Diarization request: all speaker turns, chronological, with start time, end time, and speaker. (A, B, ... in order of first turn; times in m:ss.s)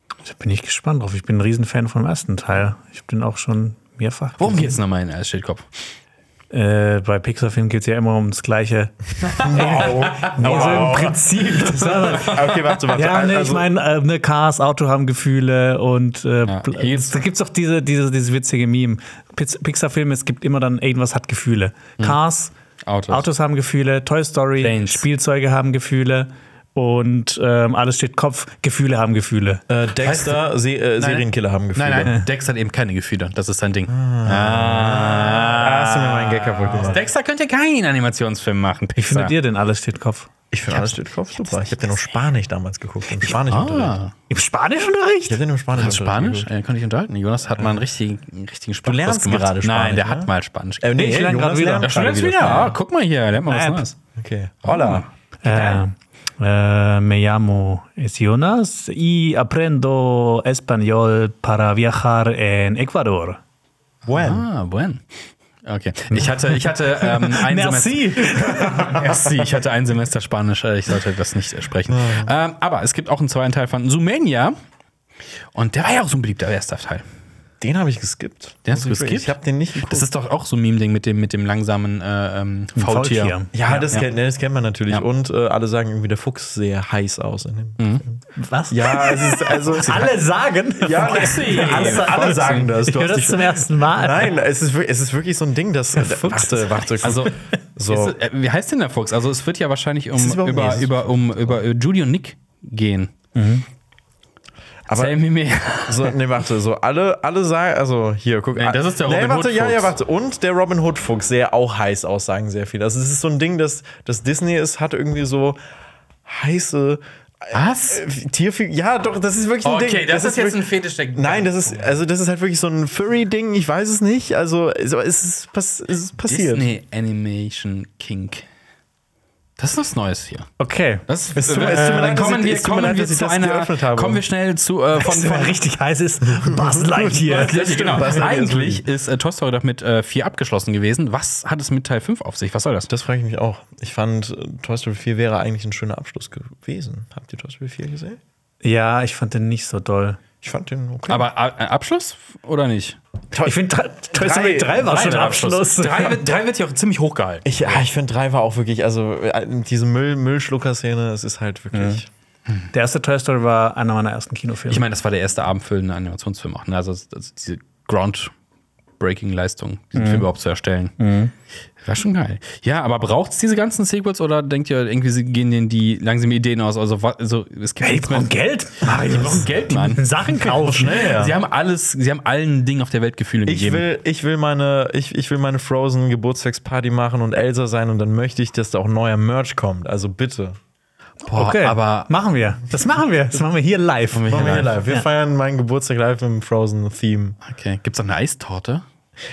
0:00.2-0:04.8 A
0:04.4-0:05.6 B
0:06.5-0:22.5 A
0:09.2-0:12.8 B
0:09.4-0:13.7 C
0:16.4-0:17.2 B
0:22.8-0:23.2 B
0:23.1-0:29.6 A
0:24.6-0:25.0 B
0:29.7-0:32.1 C
0:30.0-0:30.4 B
0:31.0-0:39.4 B
0:33.9-0:37.0 C
0:39.0-0:40.3 A
0:40.5-0:44.0 C
0:43.4-0:44.1 B
0:44.3-0:45.4 A
0:45.3-0:46.5 C
0:45.7-0:51.2 B
0:48.8-0:52.8 C
0:50.9-0:52.7 A
0:51.8-0:54.0 B
0:53.4-0:53.8 A
0:54.1-0:55.0 C
0:54.6-0:55.8 B
0:55.4-1:03.4 A
1:04.0-1:04.4 C
1:04.1-1:05.0 B
1:05.6-1:14.6 B
1:07.0-1:09.0 A
1:11.9-1:12.3 C
1:15.5-1:17.0 B
1:17.6-1:20.1 C
1:18.6-1:24.1 B
1:22.7-1:23.8 A
1:23.5-1:30.2 C
1:27.8-1:28.0 B
1:28.3-1:34.4 A
1:30.8-1:38.1 C
1:31.0-1:32.7 B
1:36.0-1:37.3 A
1:37.0-1:37.3 B
1:37.8-1:43.1 B
1:40.1-1:41.6 C
1:43.3-1:43.6 A
1:44.9-1:45.2 C
1:44.9-1:46.2 B
1:45.9-1:55.6 C
1:48.6-1:49.9 B
1:56.2-2:06.7 C
1:57.5-1:58.0 B
1:59.6-2:01.9 B
2:06.3-2:08.4 B
2:09.6-2:10.5 B
2:10.6-2:11.0 A
2:11.1-2:15.6 B
2:11.3-2:14.2 C
2:15.0-2:18.0 A
2:16.2-2:18.8 C
2:17.2-2:22.9 B
2:22.9-2:28.2 C
2:28.6-2:30.2 A
2:30.4-2:31.3 C
2:31.1-2:33.0 B
2:33.3-2:34.8 C
2:33.4-2:36.2 A
2:34.8-2:37.8 B
2:37.4-2:42.1 C
2:41.7-2:42.0 A
2:42.7-2:44.8 A
2:44.7-2:48.3 B
2:49.0-2:50.9 B
2:49.9-2:50.3 A
2:51.0-2:51.3 A
2:51.8-3:03.8 B
2:57.8-3:01.1 A
3:00.5-3:01.4 C
3:03.4-3:10.6 C
3:11.2-3:12.1 B
3:11.3-3:15.0 A
3:14.1-3:14.8 B
3:14.3-3:17.4 C
3:17.4-3:18.8 B